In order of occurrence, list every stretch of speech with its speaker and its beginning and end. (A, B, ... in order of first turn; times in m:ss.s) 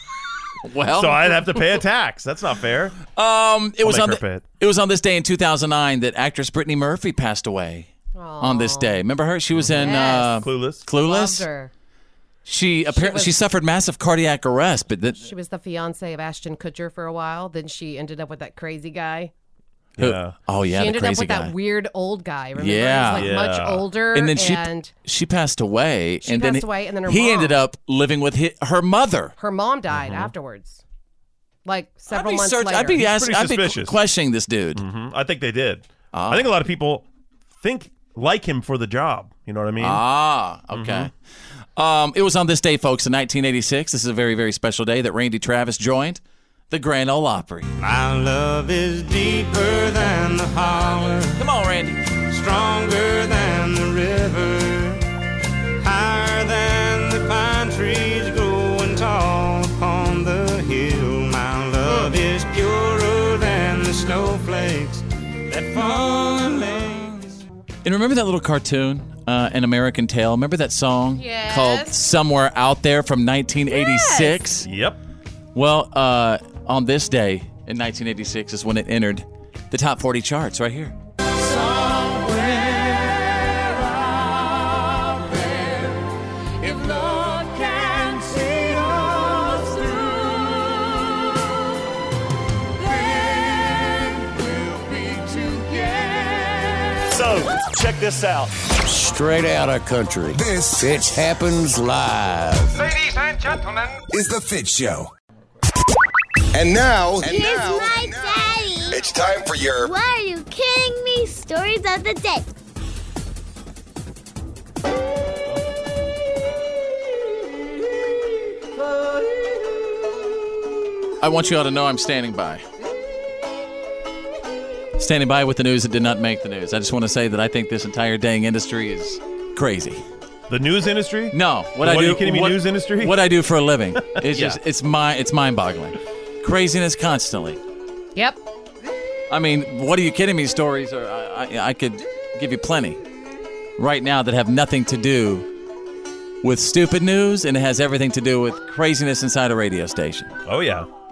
0:00.6-0:01.7 A
0:01.0-0:03.0 B
0:03.1-0:07.9 A
0:03.8-0:04.4 B
0:08.1-0:09.0 C
0:08.4-0:11.4 A
0:09.5-0:10.8 B
0:09.8-0:10.4 C
0:11.0-0:11.7 C
0:12.4-0:15.2 A
0:12.9-0:13.3 C
0:15.2-0:19.3 C
0:20.0-0:20.3 B
0:20.0-0:21.5 A
0:20.7-0:24.9 C
0:22.6-0:23.4 A
0:23.1-0:23.8 B
0:24.1-0:29.3 A
0:26.2-0:27.6 C
0:29.4-0:30.8 C
0:29.9-0:30.3 B
0:31.6-0:33.0 C
0:32.1-0:34.8 A
0:32.9-0:34.0 B
0:34.7-0:37.0 B
0:36.1-0:36.5 A
0:37.6-0:40.0 B
0:39.8-0:41.1 A
0:40.7-0:41.1 B
0:41.8-0:47.7 A
0:47.8-0:51.4 D
0:51.3-0:52.0 A
0:52.3-0:55.0 D
0:55.8-1:07.4 D
1:01.8-1:02.1 C
1:07.8-1:14.7 A
1:11.2-1:11.9 C
1:13.7-1:14.4 C
1:14.6-1:15.0 B
1:15.5-1:20.9 A
1:26.7-1:28.7 D
1:38.8-1:42.9 E
1:40.3-1:41.0 F
1:44.1-1:45.1 F
1:46.5-1:49.9 F
1:47.2-1:49.0 G
1:49.8-1:52.5 G
2:01.2-2:02.6 A
2:05.0-2:10.0 A
2:10.5-2:13.2 B
2:11.3-2:17.6 A
2:14.3-2:14.6 B
2:19.3-2:23.0 A
2:23.8-2:25.4 A
2:26.4-2:30.3 A
2:30.4-2:30.9 B